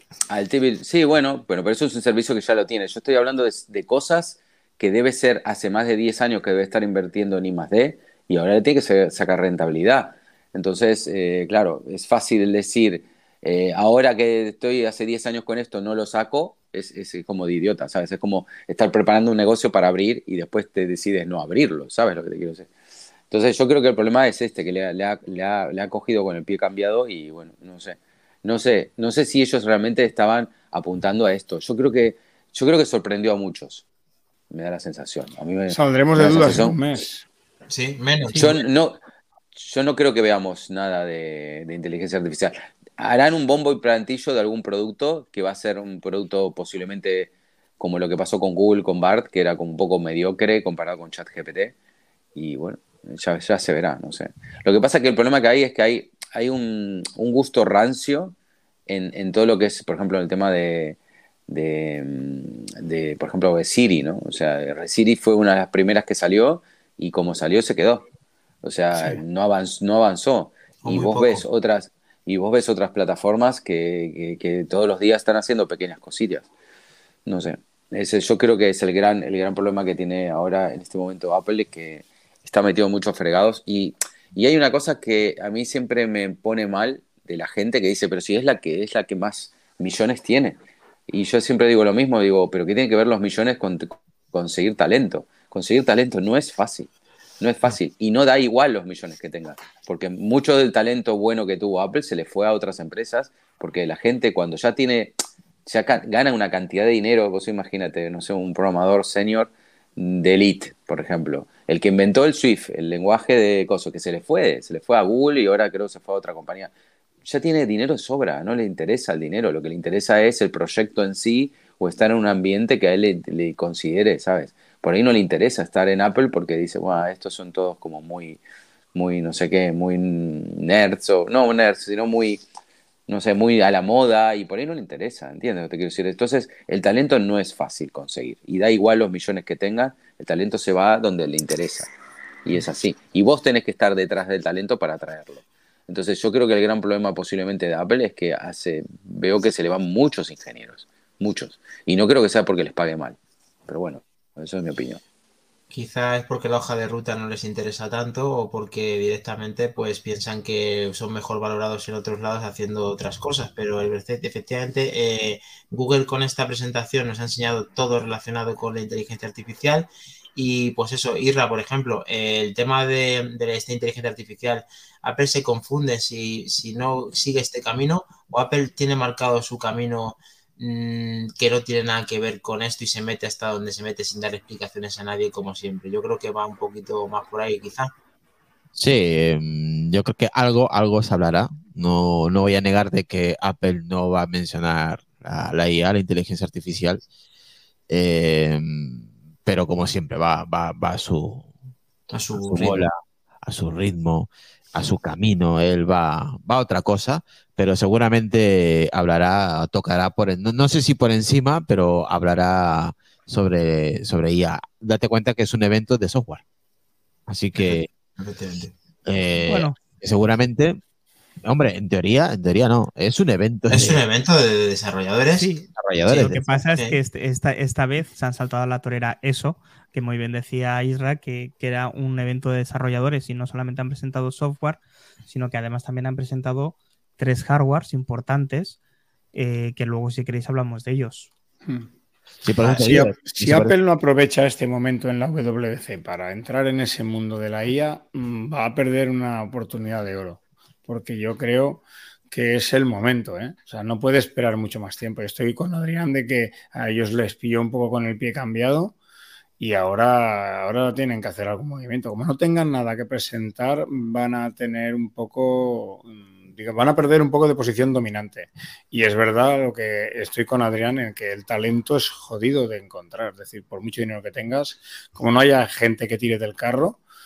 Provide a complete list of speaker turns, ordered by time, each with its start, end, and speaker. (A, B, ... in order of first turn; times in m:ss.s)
0:00.3-0:22.7 A
0:23.3-0:33.8 A
0:34.5-0:36.8 A
0:35.7-0:37.2 B
0:37.7-0:38.6 C
0:38.3-0:39.0 A
0:39.5-0:51.7 A
0:52.3-0:58.4 A
0:58.9-1:01.0 A
1:01.5-1:08.1 A
1:08.6-1:16.5 A
1:10.8-1:11.4 C
1:17.2-1:30.6 A
1:31.1-1:56.7 A
1:57.2-2:08.4 A
2:08.9-2:12.4 A
2:13.1-2:21.9 A
2:22.4-2:35.0 A
2:35.7-3:07.9 C
3:08.7-3:17.0 D
3:17.9-3:21.5 D
3:22.1-3:22.8 C
3:22.4-3:36.4 D
3:37.3-3:37.9 D
3:37.6-3:38.7 C
3:39.0-3:40.8 D
3:39.5-3:39.7 E
3:41.4-3:44.0 D
3:43.7-3:47.0 C
3:45.3-3:58.8 E
3:45.8-3:46.6 D
3:59.3-4:01.3 E
4:02.4-4:03.7 D
4:02.6-4:19.0 B
4:19.6-4:37.0 B